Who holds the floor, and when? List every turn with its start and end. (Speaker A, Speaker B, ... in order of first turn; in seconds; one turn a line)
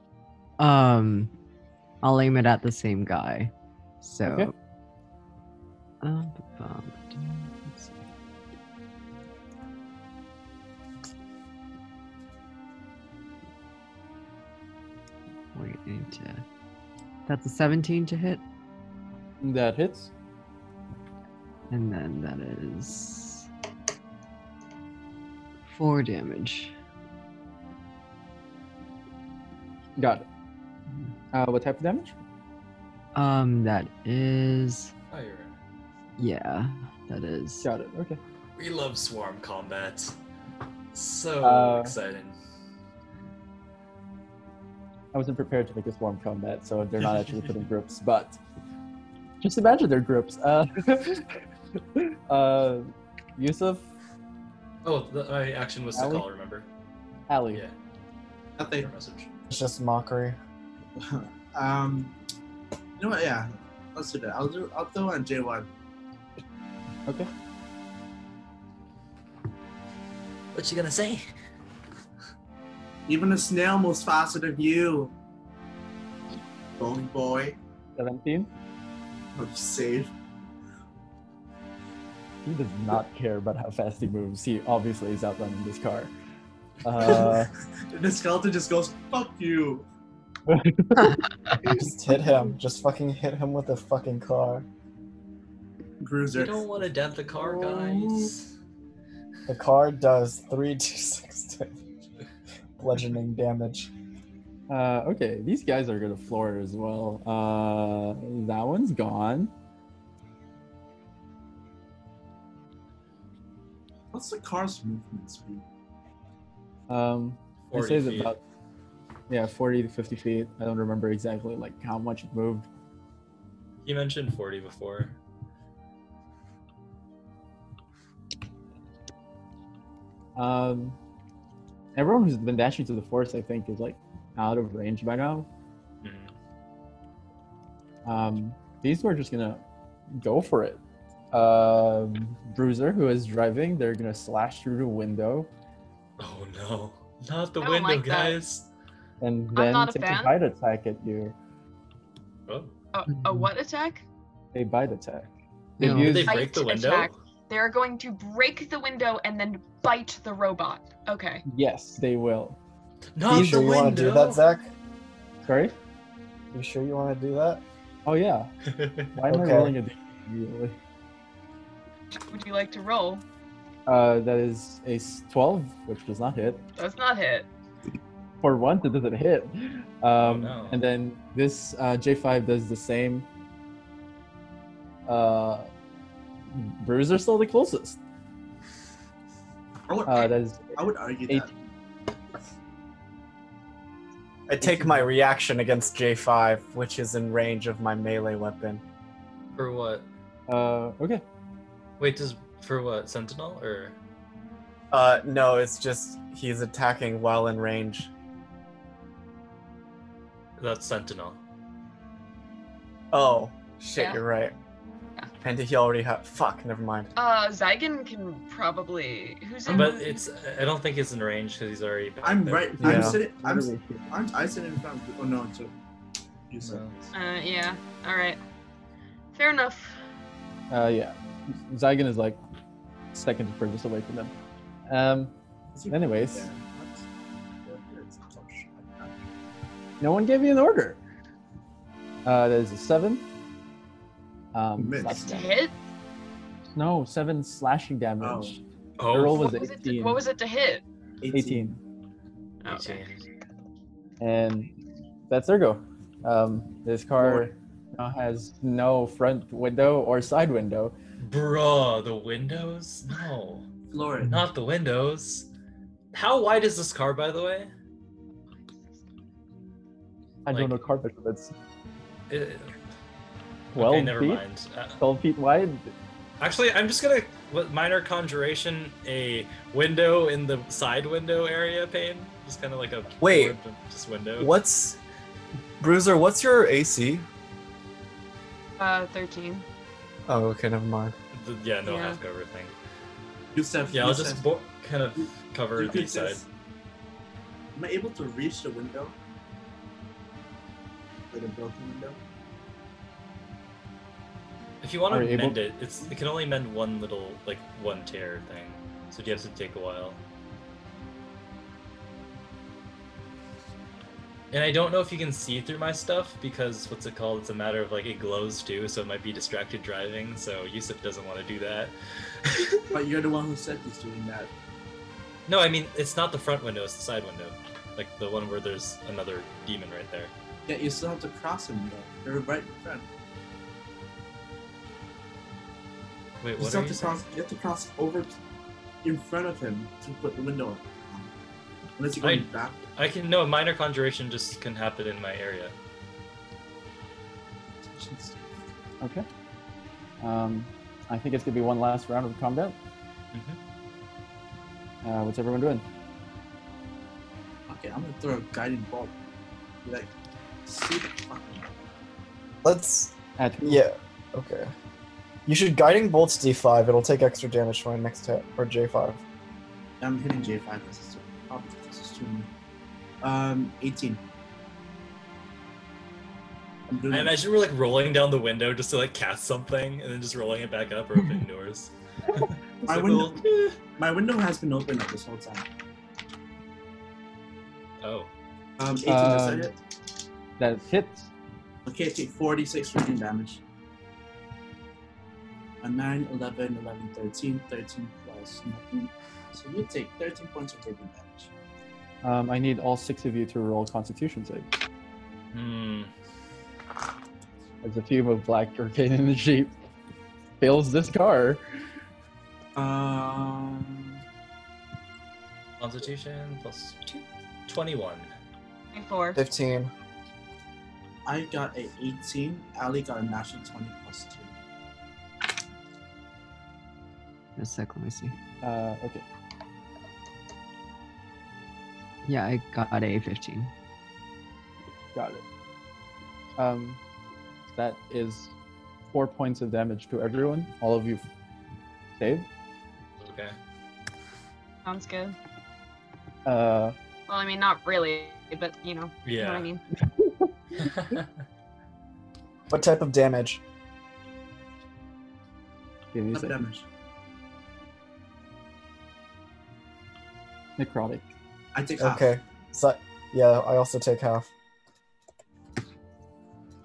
Speaker A: 0.6-1.3
Speaker A: 2.0-4.5
Speaker B: 4.2-4.5
Speaker A: 6.0-8.0
Speaker A: 15.5-16.4
Speaker A: 17.3-18.4
Speaker B: 19.4-20.1
Speaker A: 21.7-23.5
Speaker A: 25.7-26.8
Speaker B: 30.0-30.3
Speaker B: 31.3-32.2
Speaker A: 33.1-34.9
Speaker C: 35.1-35.6
Speaker A: 36.2-37.7
Speaker B: 37.6-38.2
Speaker C: 38.6-40.2
Speaker C: 40.9-42.4
Speaker B: 41.4-41.9
Speaker B: 45.1-48.4
Speaker B: 49.4-51.2
Speaker B: 52.0-53.9
Speaker C: 54.8-56.7
Speaker B: 55.9-56.2
Speaker B: 57.3-57.6
Speaker D: 58.6-58.9
Speaker C: 58.6-59.3
Speaker E: 59.5-60.4
Speaker D: 61.0-62.2
Speaker D: 63.0-65.7
Speaker C: 70.5-71.3
Speaker D: 73.1-75.1
Speaker D: 76.8-77.6
Speaker B: 78.0-78.5
Speaker D: 79.3-80.1
Speaker B: 82.5-86.1
Speaker B: 86.8-87.5
Speaker D: 87.0-89.9
Speaker B: 90.5-91.2
Speaker E: 91.7-94.7
Speaker D: 96.0-98.3
Speaker C: 96.3-98.5
Speaker E: 99.5-101.8
Speaker E: 102.8-103.9
Speaker B: 104.7-109.5
Speaker D: 114.1-115.7
Speaker B: 116.9-118.4
Speaker C: 117.7-118.3
Speaker B: 119.3-122.7
Speaker C: 123.8-125.2
Speaker B: 130.4-131.0
Speaker B: 131.9-135.5
Speaker C: 136.0-136.3
Speaker B: 138.1-140.8
Speaker B: 141.3-145.5
Speaker C: 146.2-148.7
Speaker F: 147.6-148.4
Speaker B: 149.2-151.3
Speaker F: 149.5-150.4
Speaker C: 152.5-152.7
Speaker F: 152.9-154.0
Speaker B: 154.5-156.4
Speaker A: 155.8-156.2
Speaker C: 155.8-157.2
Speaker F: 156.2-161.4
Speaker B: 161.5-162.6
Speaker C: 163.2-164.4
Speaker E: 163.3-164.7
Speaker B: 165.5-165.8
Speaker E: 166.5-167.6
Speaker B: 168.1-168.5
Speaker C: 168.7-169.1
Speaker B: 169.1-170.8
Speaker E: 169.3-169.8
Speaker F: 172.1-173.2
Speaker B: 173.9-176.6
Speaker F: 176.8-177.5
Speaker B: 178.4-183.3
Speaker C: 180.2-180.8
Speaker B: 185.1-185.7
Speaker B: 186.5-188.0
Speaker D: 189.9-191.5
Speaker B: 190.1-191.5
Speaker E: 194.5-198.8
Speaker B: 194.6-195.1
Speaker C: 199.6-200.1
Speaker B: 200.5-201.2
Speaker C: 202.0-204.0
Speaker E: 204.9-208.1
Speaker C: 210.6-211.4
Speaker E: 213.1-214.6
Speaker E: 215.4-217.1
Speaker F: 217.2-220.2
Speaker C: 219.7-222.9
Speaker D: 222.2-225.7
Speaker B: 222.8-224.1
Speaker E: 222.8-223.2
Speaker D: 226.5-227.1
Speaker C: 226.6-226.9
Speaker F: 227.1-228.4
Speaker F: 229.3-230.0
Speaker B: 230.7-232.4
Speaker B: 233.1-234.3
Speaker B: 234.9-235.3
Speaker D: 235.7-237.1
Speaker B: 235.9-236.5
Speaker D: 237.7-239.2
Speaker B: 240.0-241.0
Speaker B: 242.2-243.2
Speaker B: 244.5-245.6
Speaker D: 244.8-245.5
Speaker F: 245.1-245.7
Speaker B: 246.7-250.2
Speaker D: 248.2-248.6
Speaker C: 249.0-249.4
Speaker F: 249.2-250.8
Speaker D: 251.2-251.8
Speaker B: 251.3-251.8
Speaker F: 252.6-253.1
Speaker C: 252.7-253.3
Speaker B: 254.2-254.7
Speaker B: 255.3-260.9
Speaker D: 257.2-257.6
Speaker C: 261.2-263.7
Speaker D: 263.9-264.4
Speaker C: 264.2-265.5
Speaker C: 266.1-267.7
Speaker F: 268.7-269.0
Speaker B: 270.5-271.5
Speaker C: 270.5-270.8
Speaker C: 272.3-272.8
Speaker C: 273.7-275.0
Speaker B: 273.8-274.4
Speaker B: 275.0-275.9
Speaker C: 276.4-284.6
Speaker E: 283.2-283.6
Speaker E: 284.4-285.0
Speaker E: 285.8-287.3
Speaker F: 288.8-289.7
Speaker E: 290.3-291.1
Speaker C: 291.3-292.7
Speaker F: 291.8-292.2
Speaker D: 293.6-294.4
Speaker C: 293.9-296.4
Speaker D: 295.8-296.4
Speaker D: 297.8-299.1
Speaker D: 301.3-302.2
Speaker C: 304.8-310.2
Speaker B: 305.1-305.6
Speaker C: 314.5-322.9
Speaker D: 322.9-324.5
Speaker C: 325.5-330.3
Speaker D: 330.7-333.1
Speaker C: 336.4-337.2
Speaker D: 336.6-338.4
Speaker D: 339.0-341.3
Speaker D: 342.0-342.8
Speaker C: 342.2-345.7
Speaker D: 347.8-348.4
Speaker B: 349.0-349.3
Speaker B: 350.2-352.8
Speaker C: 353.3-353.6
Speaker B: 355.0-355.9
Speaker D: 357.7-359.1
Speaker D: 359.9-360.1
Speaker D: 360.7-361.8
Speaker E: 362.6-364.7
Speaker B: 363.4-363.8
Speaker E: 365.5-369.2
Speaker D: 370.0-372.5
Speaker D: 373.2-374.2
Speaker D: 376.9-377.4
Speaker C: 377.1-383.6
Speaker D: 382.9-383.4
Speaker D: 384.0-385.7
Speaker C: 388.0-388.3
Speaker D: 388.8-389.8
Speaker B: 389.1-389.7
Speaker B: 390.6-391.3
Speaker D: 391.9-393.6
Speaker D: 395.8-401.5
Speaker B: 402.2-404.7
Speaker C: 405.5-406.1
Speaker B: 407.8-409.7
Speaker B: 410.6-411.6
Speaker D: 412.8-414.2
Speaker C: 415.8-418.3
Speaker F: 418.9-419.4
Speaker E: 419.4-419.9
Speaker D: 421.3-424.5
Speaker A: 427.6-428.4
Speaker B: 428.6-429.2
Speaker A: 432.3-433.7
Speaker B: 435.1-435.4
Speaker B: 436.6-437.0
Speaker B: 437.7-438.5
Speaker B: 439.1-441.3
Speaker B: 442.2-442.5
Speaker C: 443.2-443.6
Speaker F: 444.8-445.4
Speaker B: 446.4-447.0
Speaker F: 447.3-449.8
Speaker C: 449.2-449.7
Speaker B: 450.2-450.5
Speaker C: 450.8-451.2
Speaker E: 452.7-453.6
Speaker B: 456.1-456.6
Speaker D: 456.3-456.9
Speaker B: 460.8-461.3
Speaker D: 461.7-462.3
Speaker E: 462.0-464.5